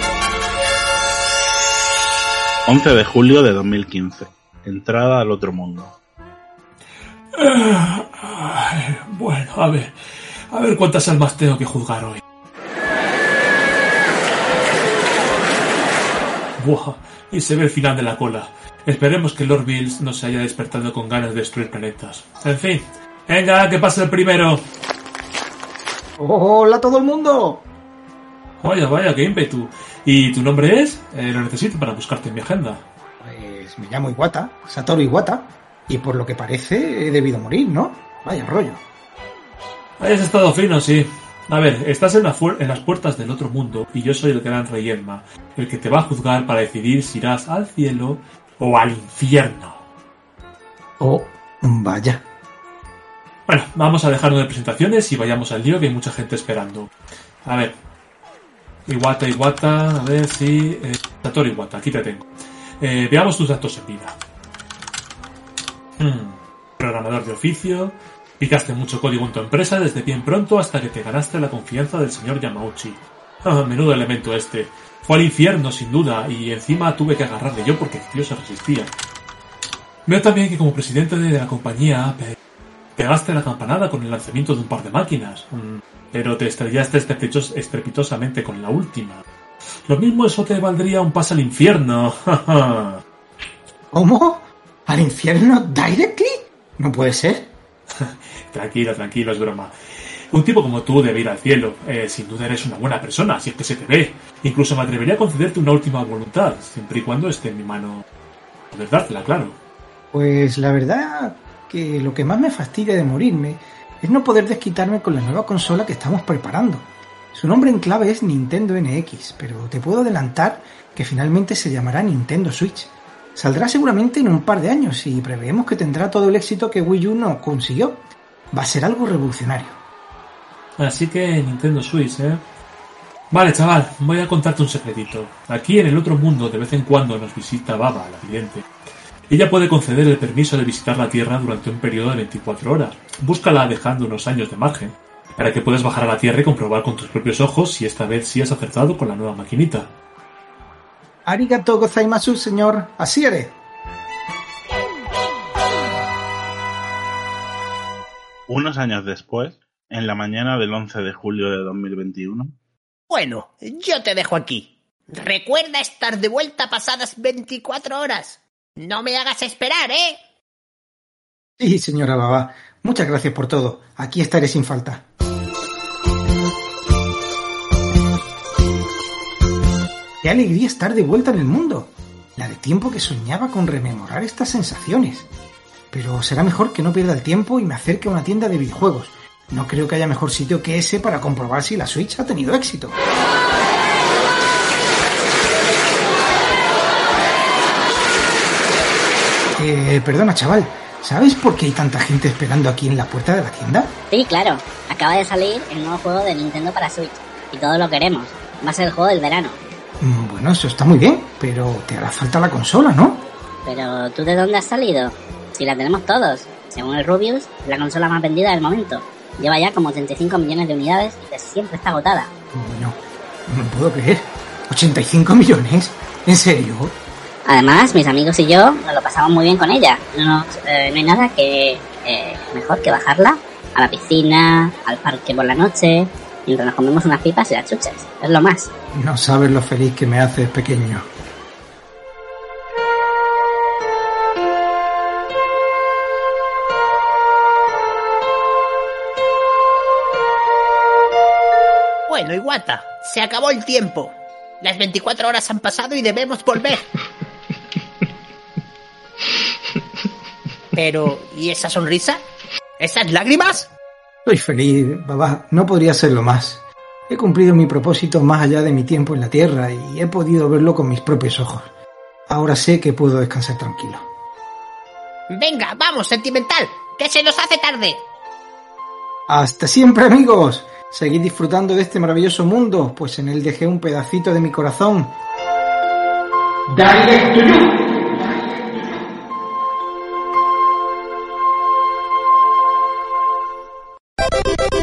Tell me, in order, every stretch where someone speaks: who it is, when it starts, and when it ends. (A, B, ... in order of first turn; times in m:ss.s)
0:02.7-0:06.0 A
0:07.4-0:12.2 B
0:16.6-0:24.6 B
0:26.2-0:27.6 C
0:28.6-0:32.8 B
0:33.2-0:38.8 C
0:40.0-0:49.8 B
0:51.0-0:52.2 C
0:53.5-0:56.9 B
0:57.4-0:57.8 B
0:58.8-1:02.3 B
1:02.8-1:04.2 B
1:06.0-1:18.9 B
1:20.0-1:22.3 B
1:23.0-1:29.2 B
1:29.9-1:33.0 B
1:33.9-1:37.5 C
1:38.0-1:48.0 B
1:48.7-1:49.6 B
1:50.1-2:09.8 C
2:10.8-2:12.4 B
2:13.3-2:18.6 B
2:19.3-2:29.9 B
2:31.2-2:33.6 C
2:38.5-2:42.5 A
2:43.1-2:50.2 D
2:51.6-2:55.0 C
3:00.2-3:05.3 C
3:05.9-3:13.0 C
3:19.6-3:23.9 C
3:24.1-3:29.6 E
3:30.0-3:33.2 C
3:33.6-3:42.3 E
3:42.5-3:46.9 C
3:47.4-3:58.7 E
3:58.9-4:01.0 C
4:12.1-4:16.8 D
4:20.7-4:22.2 D
4:22.8-4:23.7 D
4:24.2-4:31.7 C
4:32.3-4:34.0 C
4:35.3-4:38.0 D
4:39.3-4:45.1 C
4:46.7-4:48.4 C